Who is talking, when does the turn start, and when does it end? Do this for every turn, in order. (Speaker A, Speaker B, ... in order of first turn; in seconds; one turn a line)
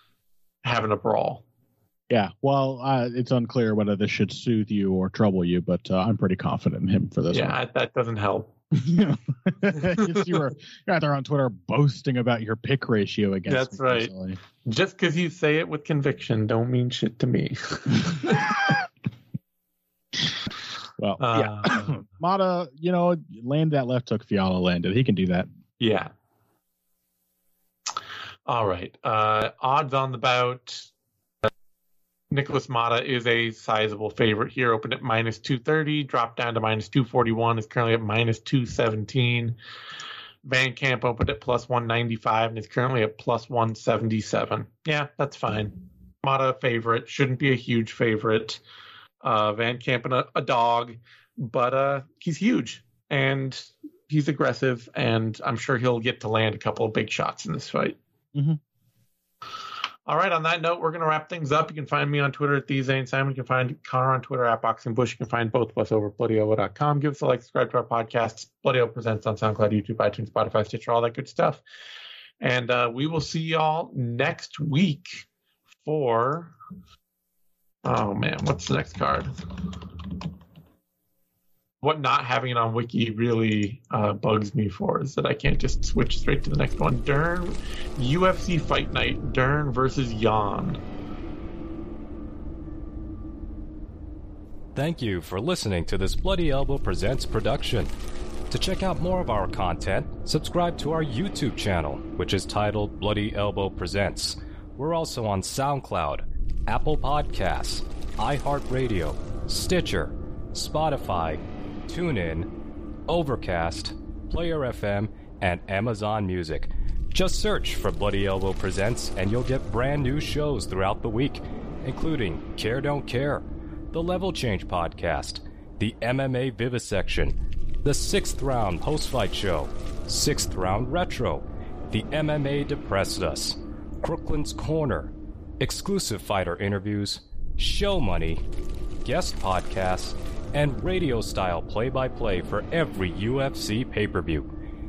Speaker A: 0.6-1.4
Speaker B: 2.1-7.6
Speaker A: 7.3-8.5
Speaker B: 8.7-14.4
Speaker A: 9.8-10.4
Speaker A: 13.5-18.7
Speaker B: 21.0-25.5
Speaker A: 21.2-22.0
Speaker A: 25.8-26.1
Speaker A: 28.5-30.9
Speaker A: 32.3-39.6
Speaker A: 40.5-48.6
Speaker A: 49.2-58.0
Speaker A: 60.1-71.6
Speaker A: 72.4-75.3
Speaker A: 75.8-76.5
Speaker A: 77.8-79.3
Speaker A: 81.8-90.8
Speaker C: 94.8-97.9
Speaker C: 98.5-112.5
Speaker C: 113.1-138.4
Speaker C: 139.0-144.5